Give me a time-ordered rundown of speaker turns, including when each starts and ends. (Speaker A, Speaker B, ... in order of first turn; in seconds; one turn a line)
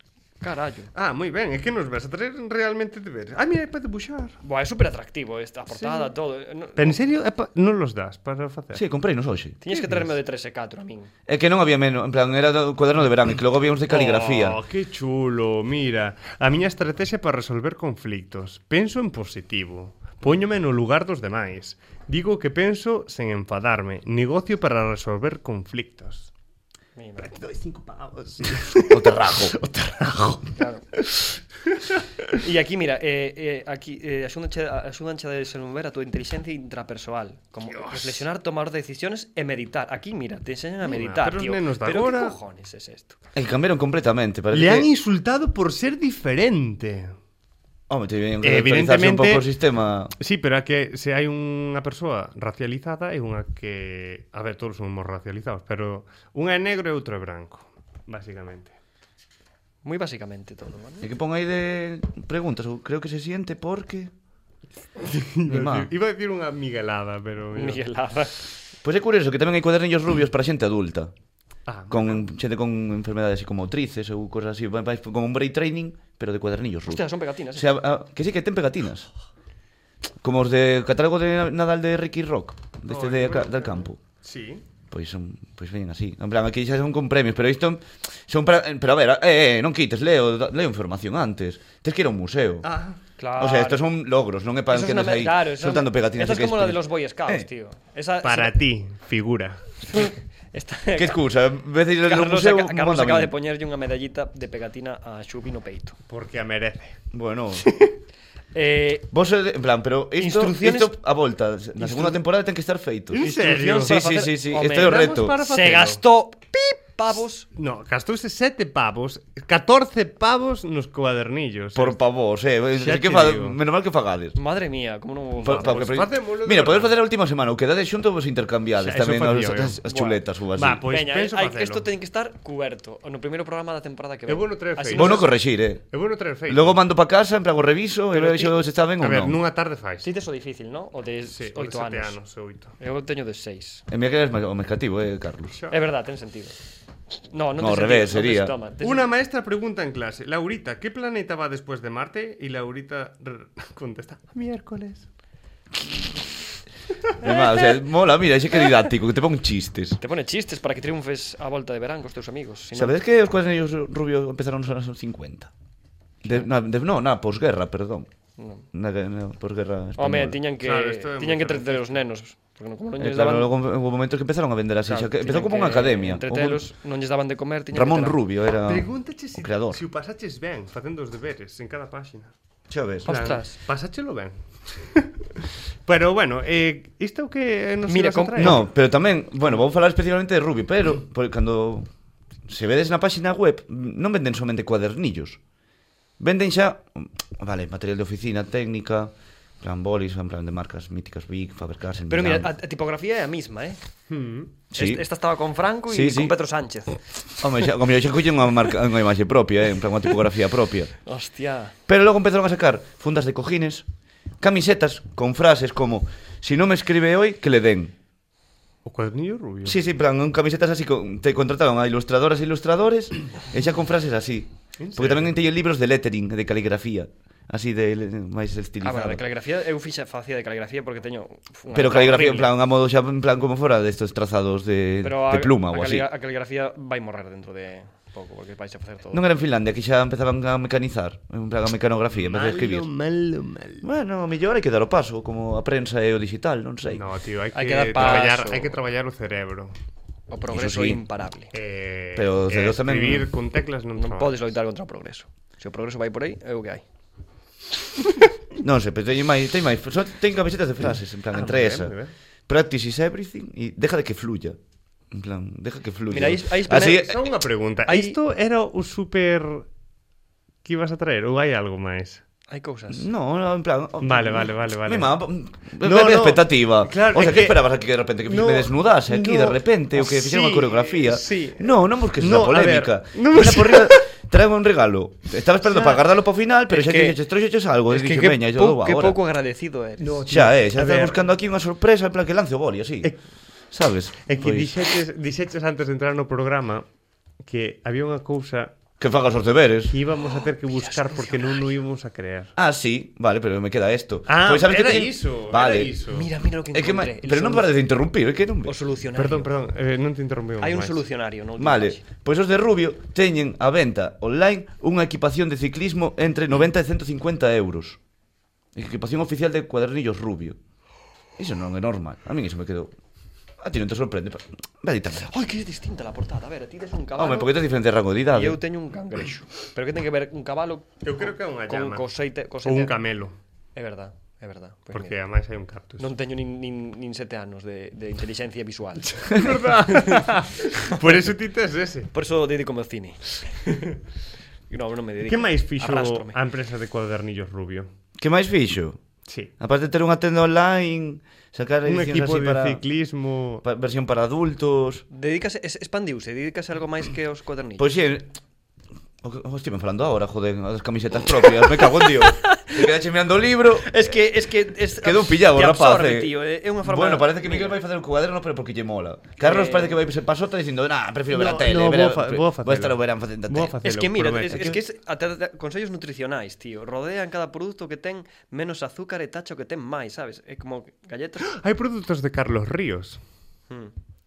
Speaker A: 0.4-0.9
Speaker B: 0.9-4.4
Speaker A: 4.4-7.0
Speaker B: 5.7-6.1
Speaker B: 6.8-8.8
Speaker C: 8.7-9.6
Speaker A: 9.6-11.1
Speaker B: 9.7-10.1
Speaker C: 11.3-14.6
Speaker B: 13.9-26.3
Speaker A: 26.9-27.3
Speaker B: 27.2-30.5
Speaker C: 28.9-29.6
Speaker A: 30.6-30.8
Speaker A: 32.3-43.2
Speaker B: 37.7-38.2
Speaker B: 40.8-42.4
Speaker C: 43.4-44.9
Speaker B: 44.5-47.1
Speaker C: 47.9-50.1
Speaker B: 48.4-49.5
Speaker B: 50.2-58.7
Speaker A: 59.8-61.1
Speaker C: 61.0-64.1
Speaker B: 65.0-67.8
Speaker C: 65.5-65.9
Speaker A: 67.5-68.4
Speaker C: 68.8-71.1
Speaker B: 71.7-72.3
Speaker C: 71.9-79.1
Speaker A: 76.9-77.7
Speaker C: 80.2-84.0
Speaker B: 82.9-84.6
Speaker C: 84.9-92.6
Speaker B: 92.6-93.0
Speaker A: 93.2-93.9
Speaker C: 93.4-97.5
Speaker A: 94.7-98.5
Speaker B: 98.2-99.6
Speaker A: 99.9-101.2
Speaker C: 101.0-103.3
Speaker A: 102.0-106.0
Speaker B: 106.1-107.0
Speaker C: 107.1-107.7
Speaker A: 108.5-109.1
Speaker C: 109.1-115.4
Speaker A: 110.2-111.0
Speaker A: 111.8-112.2
Speaker B: 113.1-114.0
Speaker A: 113.2-117.5
Speaker B: 114.7-116.0
Speaker B: 117.5-122.0
Speaker C: 121.7-124.4
Speaker B: 122.7-123.6
Speaker A: 124.4-126.0
Speaker C: 125.4-130.8
Speaker B: 125.5-126.9
Speaker B: 128.8-129.8
Speaker A: 129.9-130.2
Speaker B: 130.6-131.9
Speaker A: 130.9-135.3
Speaker B: 134.3-135.3
Speaker C: 134.9-135.9
Speaker B: 135.9-136.8
Speaker C: 136.5-139.4
Speaker A: 138.1-138.6
Speaker B: 139.0-140.1
Speaker A: 140.0-142.2
Speaker B: 141.3-142.7
Speaker A: 142.8-143.8
Speaker C: 143.9-145.6
Speaker B: 145.5-145.8
Speaker A: 145.7-146.6
Speaker A: 147.3-149.1
Speaker C: 147.6-148.5
Speaker B: 148.8-155.1
Speaker C: 157.2-160.0
Speaker A: 160.0-162.9
Speaker C: 162.7-165.5
Speaker C: 166.2-168.1
Speaker A: 168.4-168.6
Speaker C: 168.7-170.4
Speaker A: 170.0-173.5
Speaker B: 170.6-171.9
Speaker C: 173.0-176.6
Speaker A: 174.8-178.2
Speaker C: 177.7-179.8
Speaker B: 178.6-182.3
Speaker C: 182.7-183.1
Speaker A: 183.1-183.6
Speaker B: 183.1-188.7
Speaker A: 187.9-188.6
Speaker C: 188.4-191.9
Speaker C: 192.4-195.4
Speaker C: 196.2-202.5
Speaker A: 202.1-203.8
Speaker B: 204.1-204.5
Speaker C: 204.7-205.0
Speaker A: 204.7-207.0
Speaker C: 205.9-206.4
Speaker C: 207.4-210.9
Speaker A: 211.1-211.7
Speaker C: 211.9-213.8
Speaker C: 214.4-217.9
Speaker B: 218.8-219.8
Speaker C: 219.6-229.2
Speaker B: 224.8-225.4
Speaker A: 228.8-232.5
Speaker C: 231.7-236.1
Speaker A: 235.0-239.2
Speaker C: 239.1-242.9
Speaker B: 242.1-243.8
Speaker C: 243.8-247.0
Speaker B: 246.9-249.7
Speaker A: 247.6-248.8
Speaker A: 250.3-251.5
Speaker C: 250.5-251.0
Speaker B: 251.5-254.4
Speaker C: 252.1-253.3
Speaker A: 254.0-256.8
Speaker C: 258.6-261.9
Speaker B: 261.3-262.1
Speaker C: 262.5-264.6
Speaker C: 265.1-267.2
Speaker A: 266.1-267.2
Speaker B: 266.8-269.7
Speaker A: 267.9-268.2
Speaker B: 270.6-272.2
Speaker A: 272.5-273.1
Speaker C: 272.9-289.2
Speaker B: 274.0-275.2
Speaker B: 275.8-277.7
Speaker B: 278.2-284.1
Speaker B: 285.7-286.0
Speaker A: 286.7-287.2
Speaker A: 287.9-290.2
Speaker B: 290.0-291.3
Speaker C: 290.3-293.1
Speaker C: 293.7-294.7
Speaker B: 294.3-296.9
Speaker B: 297.4-298.7
Speaker C: 299.0-300.0
Speaker B: 299.9-302.5
Speaker A: 300.2-301.6
Speaker C: 302.6-305.9
Speaker B: 304.3-306.3
Speaker A: 306.1-307.7
Speaker C: 306.7-308.7
Speaker A: 308.7-309.5
Speaker B: 309.1-311.0
Speaker A: 310.6-312.0
Speaker C: 311.6-318.0
Speaker C: 318.7-320.6
Speaker C: 321.4-322.9
Speaker C: 323.6-325.3
Speaker A: 325.3-327.6
Speaker C: 327.2-328.6
Speaker A: 328.3-333.1
Speaker B: 331.0-332.1
Speaker B: 332.6-333.4
Speaker A: 333.7-335.2
Speaker B: 334.9-336.1
Speaker A: 336.0-339.3
Speaker B: 339.2-342.1
Speaker A: 339.9-340.9
Speaker A: 342.1-343.9
Speaker A: 344.7-346.4
Speaker B: 345.2-347.9
Speaker C: 348.2-349.0
Speaker B: 349.3-349.5
Speaker C: 349.6-352.8
Speaker B: 351.9-353.6
Speaker C: 353.6-355.1
Speaker A: 355.1-357.9
Speaker C: 357.8-358.4
Speaker C: 359.2-364.2
Speaker A: 361.6-362.9
Speaker A: 363.7-367.8
Speaker C: 364.9-373.8
Speaker A: 369.4-370.1
Speaker B: 371.3-374.8
Speaker A: 373.8-381.6
Speaker B: 381.4-383.2